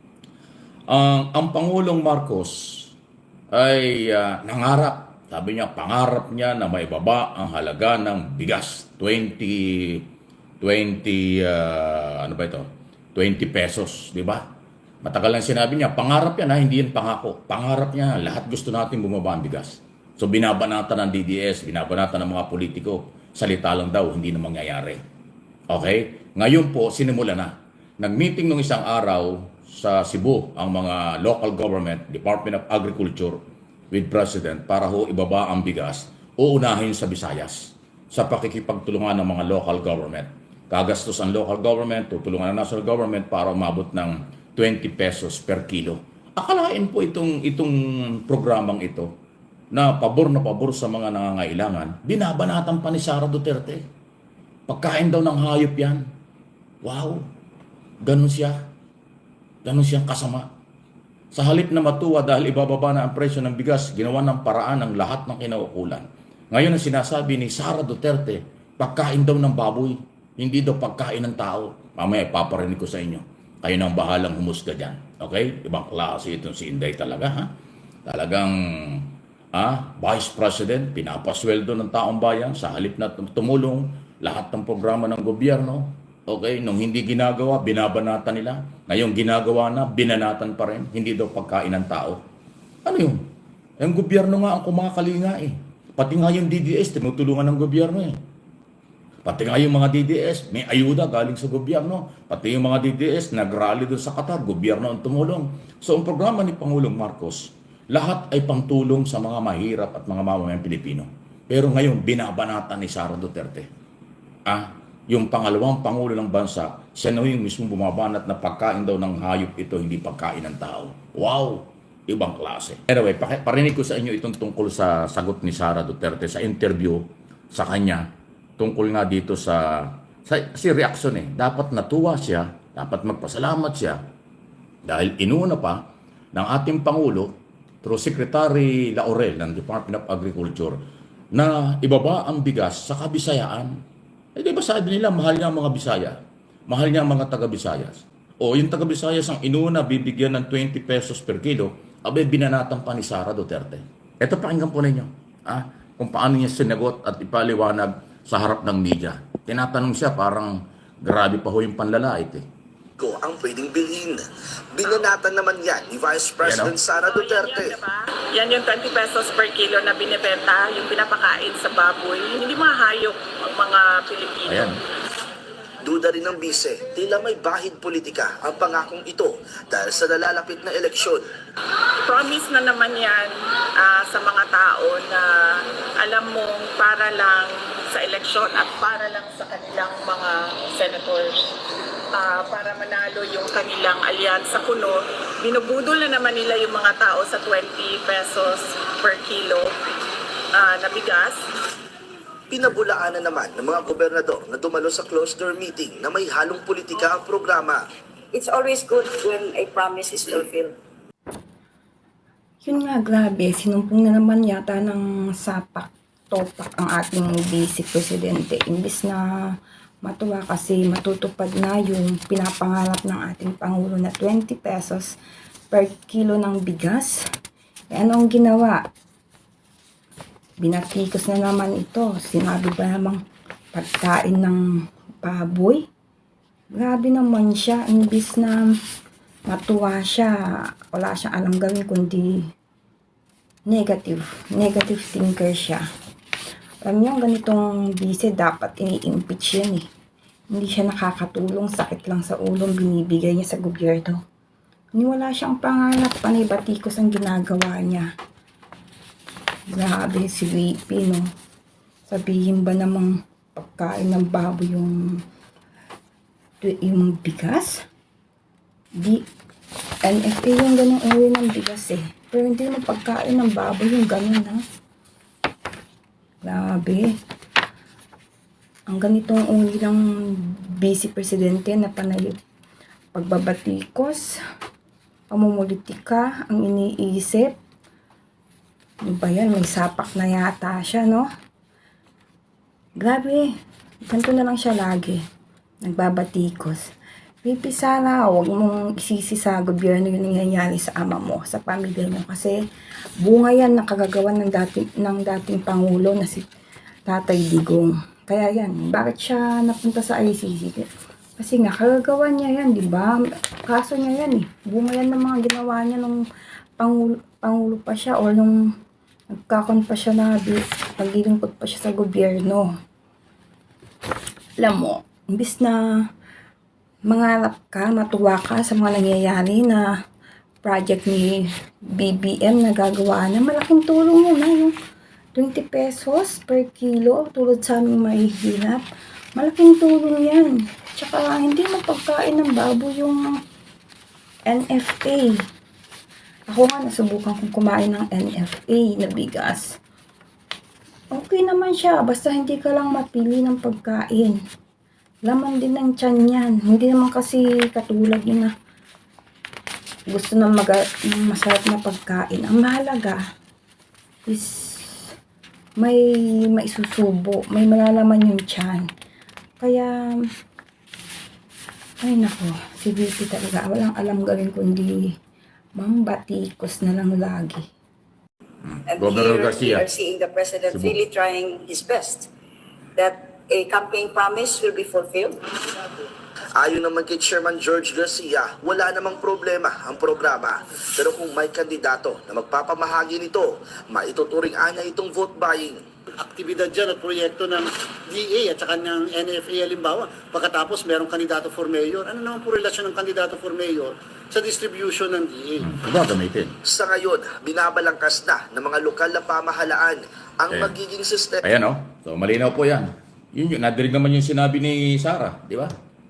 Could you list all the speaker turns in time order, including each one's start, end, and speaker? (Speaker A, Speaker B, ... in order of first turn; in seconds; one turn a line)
Speaker A: 0.9-2.9
Speaker A: 3.5-10.0
Speaker A: 10.6-14.4
Speaker A: 15.0-25.0
Speaker A: 25.7-33.4
Speaker A: 33.9-47.8
Speaker A: 48.3-49.1
Speaker A: 49.7-53.8
Speaker A: 54.7-56.0
Speaker A: 56.8-57.2
Speaker A: 58.0-58.6
Speaker A: 59.6-60.5
Speaker A: 61.3-77.5
Speaker A: 78.1-92.2
Speaker A: 92.8-93.2
Speaker A: 93.8-98.2
Speaker A: 99.2-113.7
Speaker A: 114.5-128.1
Speaker A: 128.6-134.0
Speaker A: 134.9-135.8
Speaker A: 136.3-137.3
Speaker A: 137.8-140.8
Speaker A: 141.3-143.8
Speaker A: 144.4-146.2
Speaker A: 146.7-162.4
Speaker B: 163.0-167.8
Speaker A: 166.4-166.8
Speaker C: 167.0-174.7
Speaker A: 174.5-174.8
Speaker B: 175.8-181.2
Speaker C: 182.1-191.6
Speaker C: 192.1-199.7
Speaker C: 200.5-201.4
Speaker B: 202.5-207.8
Speaker D: 208.3-210.8
Speaker E: 212.6-225.1
Speaker E: 225.7-227.2
Speaker E: 227.9-228.8
Speaker E: 230.6-233.2
Speaker E: 233.7-234.6
Speaker E: 235.2-235.8
Speaker E: 236.8-238.7
Speaker E: 239.5-240.3
Speaker E: 240.9-242.4
Speaker E: 243.7-245.8
Speaker E: 246.8-249.9
Speaker E: 250.5-254.2
Speaker E: 255.0-258.1
Speaker E: 259.7-261.3
Speaker E: 262.1-265.2
Speaker E: 266.6-267.9
Speaker E: 270.1-274.6
Speaker E: 276.4-277.1
Speaker E: 278.9-282.4
Speaker E: 283.1-284.4
Speaker E: 285.3-287.5
Speaker E: 289.1-291.3
Speaker E: 293.0-293.5
Speaker E: 294.1-295.2
Speaker E: 295.8-296.8
Speaker E: 297.4-302.6
Speaker E: 303.2-306.4
Speaker E: 307.1-310.9
Speaker E: 311.4-313.1
Speaker E: 313.7-316.2
Speaker E: 316.8-318.6
Speaker E: 319.3-322.7
Speaker E: 324.6-325.8
Speaker E: 327.1-329.9
Speaker E: 330.6-334.7
Speaker E: 335.4-338.8
Speaker E: 339.4-343.4
Speaker E: 344.5-345.4
Speaker E: 346.5-349.8
Speaker E: 351.1-354.4
Speaker E: 355.3-358.5
Speaker E: 360.1-363.2
Speaker E: 364.3-365.1
Speaker E: 365.8-368.9
Speaker E: 369.6-370.2
Speaker E: 372.0-375.1
Speaker E: 375.8-377.6
Speaker A: 378.9-379.9
Speaker D: 378.9-382.3
Speaker A: 380.7-381.0
Speaker D: 383.0-385.4
Speaker B: 386.6-395.8
Speaker F: 396.2-405.6
Speaker A: 405.6-406.6
Speaker B: 406.6-411.4
Speaker A: 410.5-410.8
Speaker A: 411.4-415.7